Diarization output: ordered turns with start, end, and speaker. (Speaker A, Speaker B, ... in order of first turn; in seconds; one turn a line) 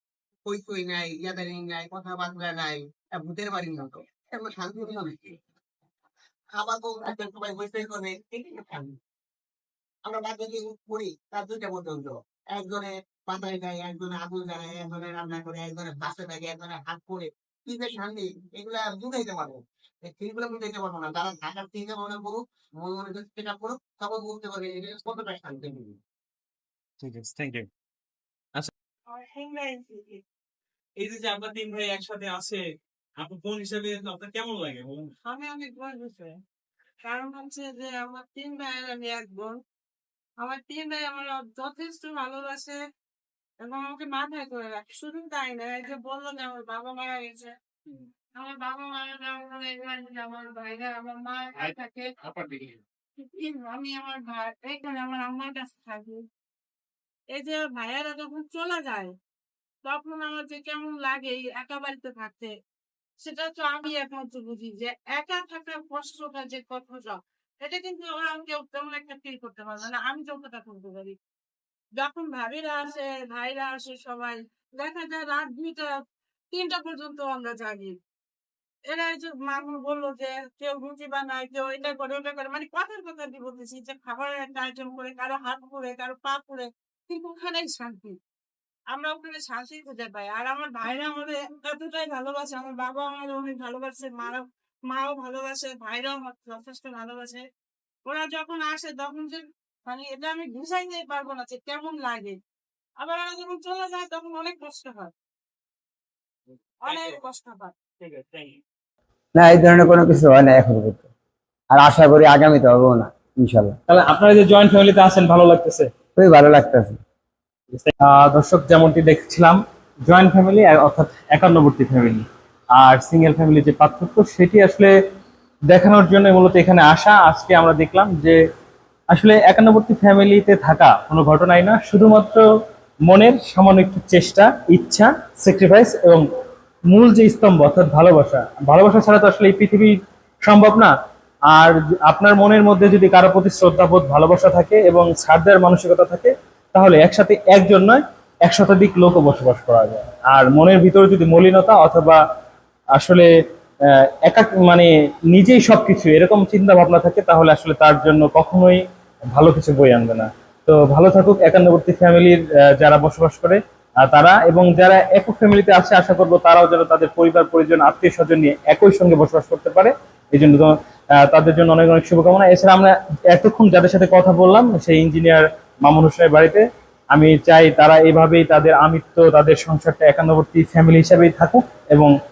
Speaker A: 0.5-5.3
Speaker A: 6.5-8.9
Speaker A: 10.1-25.9
Speaker B: 27.1-27.6
Speaker C: 29.1-30.2
Speaker D: 31.0-32.6
Speaker D: 33.2-35.0
Speaker C: 35.2-36.3
Speaker C: 37.0-39.5
Speaker C: 40.4-42.8
Speaker C: 43.6-52.1
Speaker C: 53.2-56.2
Speaker C: 57.3-59.1
Speaker C: 59.8-62.5
Speaker C: 63.2-71.1
Speaker C: 72.0-75.9
Speaker C: 76.5-77.9
Speaker C: 78.9-88.1
Speaker C: 88.9-97.4
Speaker C: 98.0-102.3
Speaker C: 103.0-105.1
Speaker C: 106.8-107.7
Speaker D: 108.0-108.5
Speaker E: 109.3-111.0
Speaker E: 111.7-113.7
Speaker B: 113.9-115.9
Speaker E: 116.2-117.0
Speaker B: 118.0-122.2
Speaker B: 122.8-124.9
Speaker B: 125.7-128.3
Speaker B: 129.1-132.4
Speaker B: 133.1-136.2
Speaker B: 136.9-140.9
Speaker B: 141.5-152.2
Speaker B: 152.9-153.3
Speaker B: 154.2-158.8
Speaker B: 159.3-170.7
Speaker B: 171.3-182.1